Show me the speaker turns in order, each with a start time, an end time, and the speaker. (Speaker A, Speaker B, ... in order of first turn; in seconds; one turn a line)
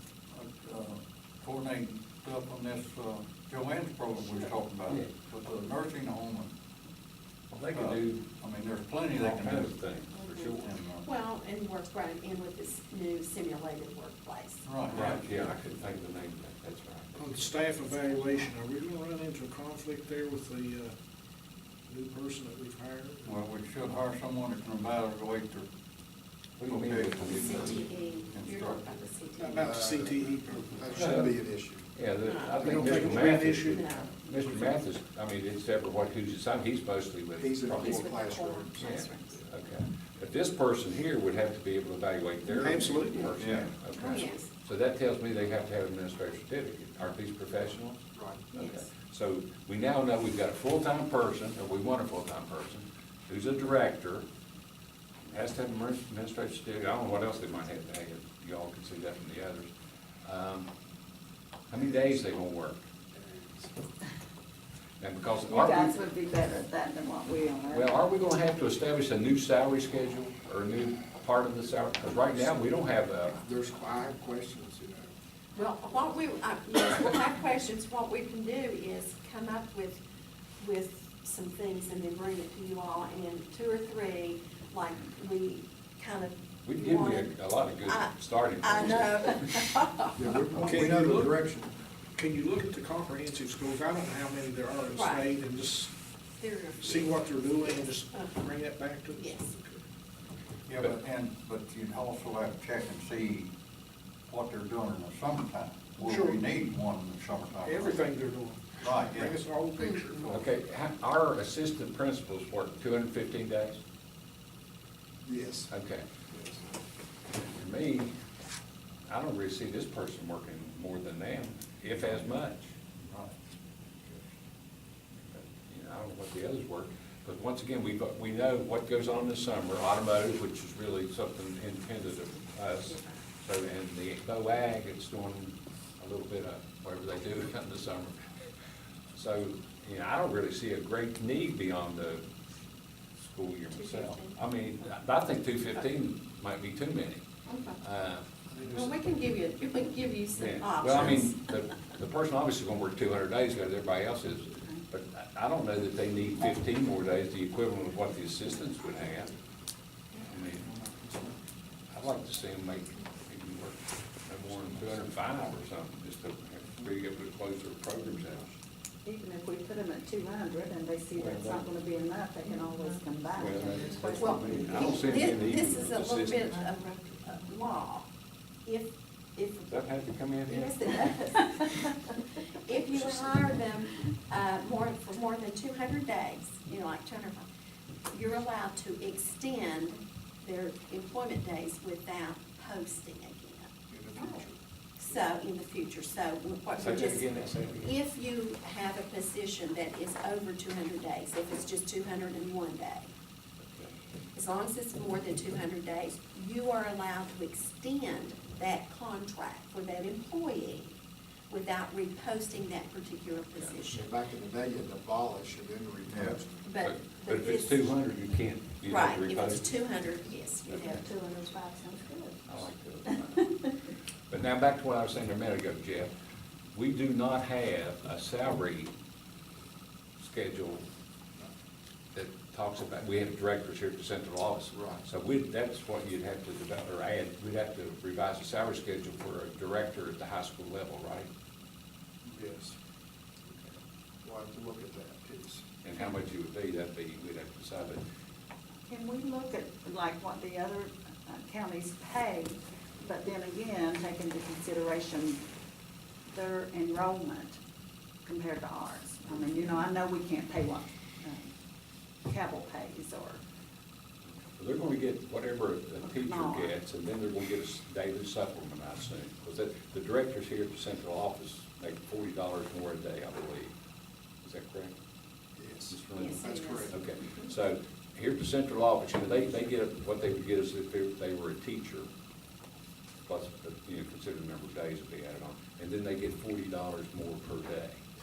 Speaker A: 0.3-6.5
Speaker B: 7.5-8.2
Speaker A: 7.7-9.8
Speaker B: 9.1-10.7
Speaker C: 10.2-15.2
Speaker A: 10.4-11.1
Speaker A: 14.7-15.5
Speaker B: 14.9-17.5
Speaker D: 17.2-20.9
Speaker C: 17.9-18.2
Speaker D: 21.9-23.4
Speaker A: 23.2-25.7
Speaker B: 26.6-27.8
Speaker A: 26.6-29.1
Speaker C: 27.2-29.8
Speaker D: 29.4-31.4
Speaker E: 29.6-31.9
Speaker B: 30.9-31.3
Speaker B: 31.9-38.1
Speaker C: 32.2-34.1
Speaker E: 32.5-33.2
Speaker D: 32.6-34.7
Speaker E: 37.4-39.4
Speaker C: 37.7-39.4
Speaker B: 38.8-54.2
Speaker D: 42.5-43.3
Speaker A: 43.4-43.7
Speaker C: 43.9-44.5
Speaker E: 48.1-48.4
Speaker C: 48.5-48.9
Speaker B: 55.2-59.7
Speaker B: 60.2-60.7
Speaker B: 61.7-62.9
Speaker E: 63.1-63.8
Speaker B: 65.0-66.0
Speaker F: 65.5-68.0
Speaker B: 67.7-73.4
Speaker E: 72.3-72.7
Speaker E: 73.3-75.1
Speaker C: 75.5-80.0
Speaker C: 80.6-90.1
Speaker B: 86.7-89.7
Speaker E: 90.2-91.8
Speaker D: 90.5-91.4
Speaker D: 92.2-95.9
Speaker C: 94.9-95.3
Speaker C: 96.4-98.4
Speaker D: 96.8-99.8
Speaker C: 99.1-99.5
Speaker A: 100.7-103.5
Speaker A: 104.3-108.1
Speaker D: 106.0-106.4
Speaker D: 107.6-110.5
Speaker A: 108.8-109.4
Speaker B: 110.3-113.8
Speaker E: 115.2-115.7
Speaker B: 115.7-116.1
Speaker E: 116.3-116.6
Speaker B: 117.4-118.1
Speaker B: 119.1-122.8
Speaker A: 123.1-123.3
Speaker B: 125.3-138.3
Speaker B: 139.1-142.3
Speaker B: 143.2-147.3
Speaker C: 143.7-144.4
Speaker C: 147.5-147.8
Speaker B: 147.8-148.6
Speaker C: 148.6-151.4
Speaker B: 150.4-159.3
Speaker B: 160.3-160.8
Speaker E: 160.7-161.4
Speaker B: 161.9-168.6
Speaker F: 169.1-175.4
Speaker B: 171.2-171.7
Speaker B: 173.4-176.6
Speaker C: 174.0-178.1
Speaker C: 178.7-179.7
Speaker B: 179.7-181.2
Speaker C: 180.5-182.1
Speaker C: 182.7-187.5
Speaker C: 188.1-194.4
Speaker E: 193.9-194.6
Speaker C: 195.0-203.1
Speaker B: 196.8-197.9
Speaker D: 197.4-197.7
Speaker B: 203.6-203.9
Speaker C: 204.3-210.9
Speaker C: 211.5-214.1
Speaker E: 213.9-216.6
Speaker A: 216.1-216.4
Speaker C: 216.6-218.0
Speaker B: 216.8-219.8
Speaker C: 218.8-221.1
Speaker F: 220.7-223.4
Speaker B: 222.5-223.6
Speaker B: 224.3-226.1
Speaker B: 226.7-228.9
Speaker B: 230.2-230.8
Speaker B: 232.2-241.3
Speaker E: 234.7-235.0
Speaker E: 242.2-242.8
Speaker E: 244.2-245.7
Speaker B: 245.8-248.0
Speaker F: 248.9-255.4
Speaker F: 256.3-257.6
Speaker F: 258.2-261.5
Speaker F: 262.3-263.4
Speaker B: 264.6-273.7
Speaker F: 266.0-266.8
Speaker B: 274.4-274.9
Speaker E: 275.6-276.9
Speaker B: 275.9-282.1
Speaker C: 276.1-277.0
Speaker B: 283.3-288.1